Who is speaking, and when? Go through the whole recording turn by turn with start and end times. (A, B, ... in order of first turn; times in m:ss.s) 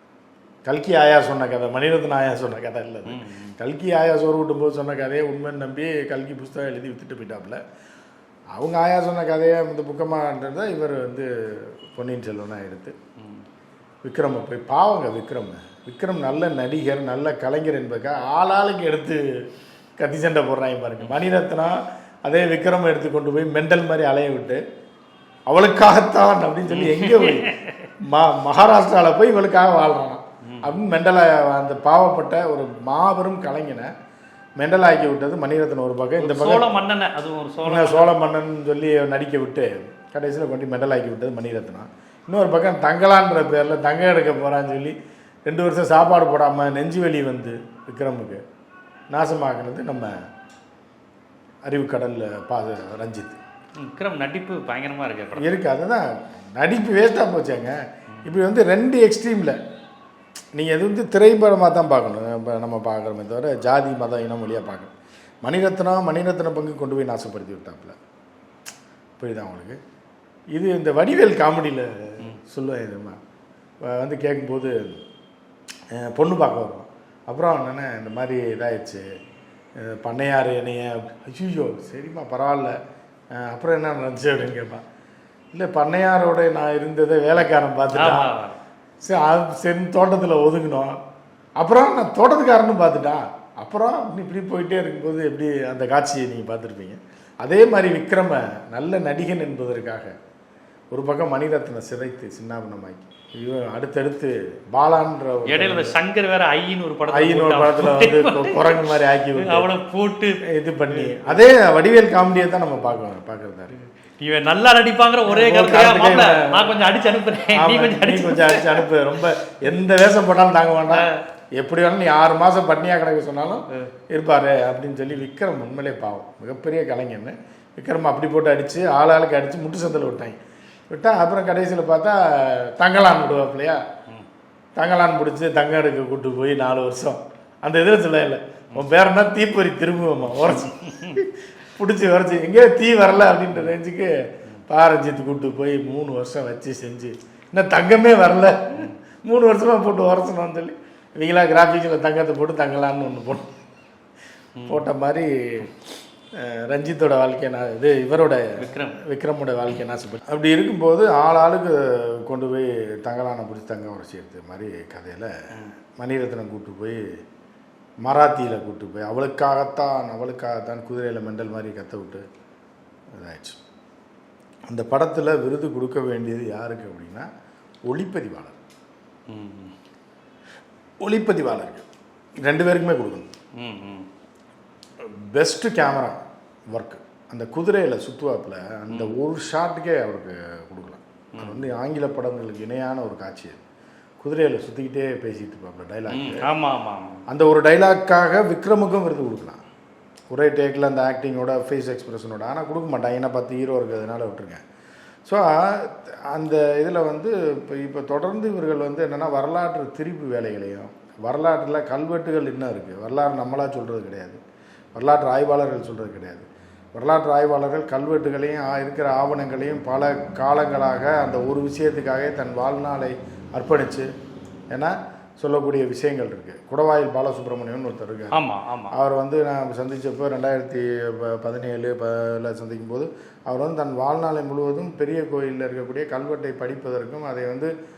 0:00.6-0:07.6 A
0:03.0-0:03.5 B
0:08.5-0:13.0 A
0:13.2-0:13.4 B
0:14.0-0:19.2 A
0:20.0-0:24.6 A
0:25.5-0:33.9 A
0:26.7-0:27.9 B
0:30.4-0:30.8 B
0:34.6-0:36.6 A
0:36.2-0:38.1 B
0:37.6-0:45.0 A
0:45.5-0:48.4 A
0:49.1-0:50.1 A
0:51.6-0:53.4 A
0:53.8-0:55.5 B
0:55.4-0:59.6 A
1:00.6-1:04.9 A
1:05.4-1:08.0 A
1:09.2-1:09.8 A
1:10.5-1:13.2 A
1:13.8-1:15.0 A
1:15.9-1:19.0 A
1:19.8-1:22.7 A
1:23.3-1:24.8 A
1:25.5-1:28.3 A
1:27.9-1:28.6 B
1:29.0-1:31.0 A
1:31.6-1:40.1 A
1:40.9-1:45.9 A
1:45.4-1:51.4 B
1:47.1-1:49.7 A
1:50.5-1:53.7 A
1:54.2-1:58.9 B
1:55.2-1:56.7 A
1:57.5-2:10.4 A
2:00.9-2:01.2 B
2:10.9-2:13.8 A
2:14.8-2:24.1 A
2:20.8-2:21.2 B
2:24.7-2:33.5 A
2:34.6-2:34.8 B
2:34.7-2:35.7 A
2:36.3-2:45.3 A
2:38.6-2:39.0 B
2:46.0-2:47.0 A
2:48.0-2:52.2 A
2:53.1-2:53.6 A
2:54.7-2:57.3 A
2:57.9-2:58.6 A
2:59.3-2:59.7 B
3:01.0-3:01.8 A
3:02.4-3:03.3 A
3:03.6-3:04.1 B
3:05.0-3:13.6 A
3:11.3-3:11.6 B
3:14.2-3:16.5 A
3:16.1-3:17.2 B
3:17.3-3:19.6 A
3:20.3-3:24.6 A
3:25.2-3:34.4 A
3:34.9-3:44.1 A
3:44.7-3:57.7 A
3:48.3-3:48.9 B